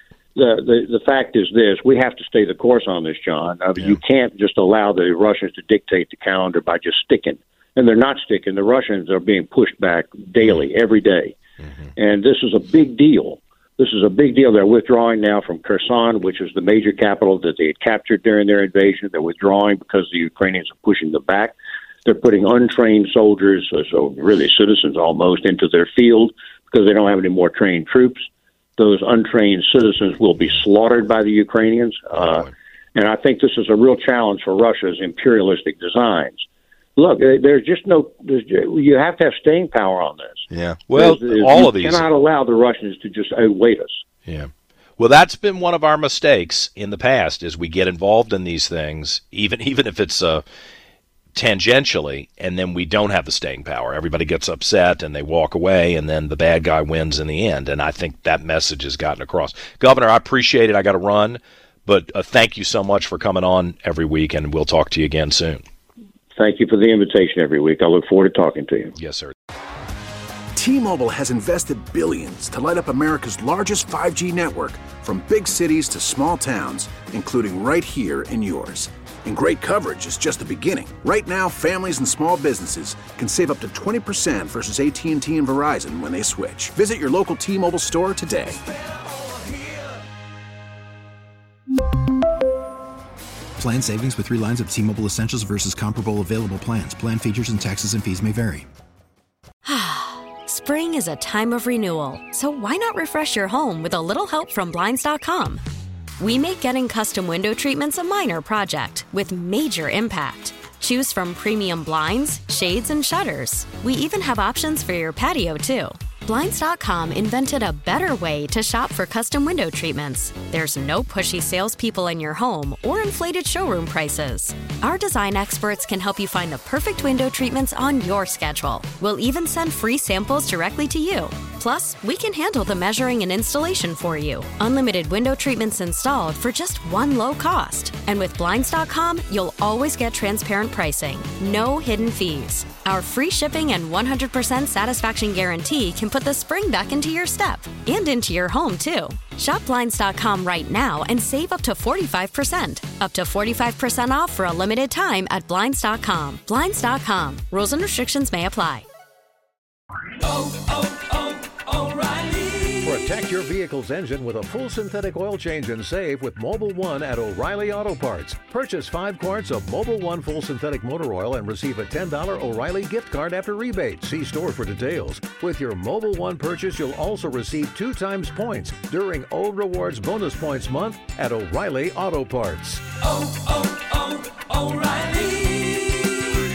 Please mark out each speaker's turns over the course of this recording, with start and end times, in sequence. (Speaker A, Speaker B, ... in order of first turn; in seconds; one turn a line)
Speaker A: 0.4-11.4
Speaker A: 12.0-36.4
Speaker A: 37.0-44.0
Speaker B: 40.5-42.0
Speaker B: 44.3-50.4
Speaker B: 51.4-65.6
Speaker A: 66.4-69.0
Speaker B: 69.0-69.3
Speaker C: 70.6-88.6
Speaker D: 93.6-98.7
Speaker C: 93.8-94.7
Speaker C: 97.2-97.8
Speaker E: 99.7-105.6
Speaker E: 106.2-158.9
Speaker F: 160.4-160.8
Speaker F: 161.9-185.9